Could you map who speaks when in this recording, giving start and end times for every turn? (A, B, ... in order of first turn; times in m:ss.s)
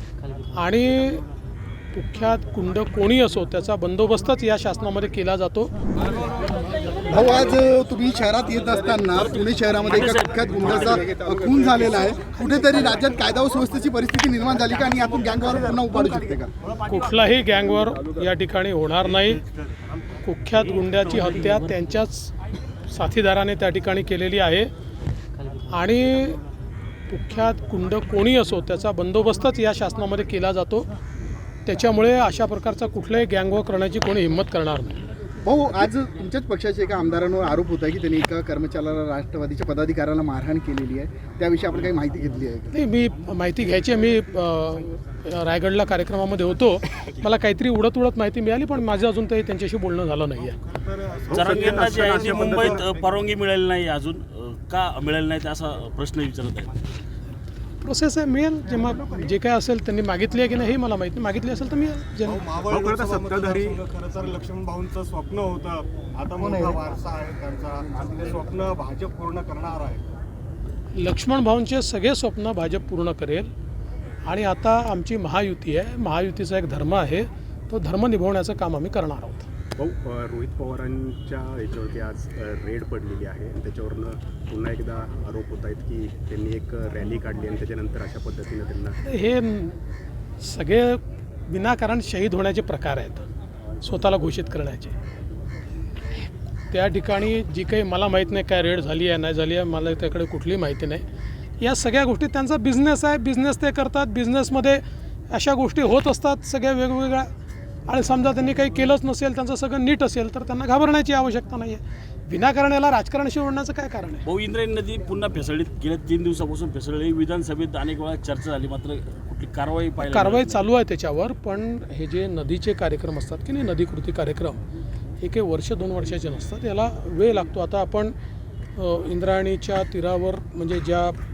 0:00.5-0:01.2 A
0:01.9-0:05.7 A
0:07.0-0:16.5 B
0:09.8-0:11.0 C
0:16.8-0:19.4 A
0:20.2-0:22.3 A
0:22.8-0:24.7 A
0:25.7-0:26.4 A
0:27.1-0:30.9 A
0:31.6-0:35.0 A
0:35.4-0:42.7 B
0:42.7-0:50.6 A
0:50.6-0:53.0 D
0:51.3-0:52.8 E
0:51.3-0:56.7 C
0:57.8-1:02.4 A
1:02.2-1:10.0 D
1:02.6-1:03.8 E
1:10.9-1:13.5 A
1:14.2-1:19.5 A
1:19.8-1:29.0 E
1:29.0-1:29.7 A
1:30.4-1:33.3 A
1:33.8-1:35.0 A
1:36.7-1:41.0 A
1:41.6-1:47.3 A
1:47.9-1:54.2 A
1:54.2-2:00.6 C
2:00.0-2:04.6 A
2:05.2-2:08.1 A
2:08.7-2:11.2 A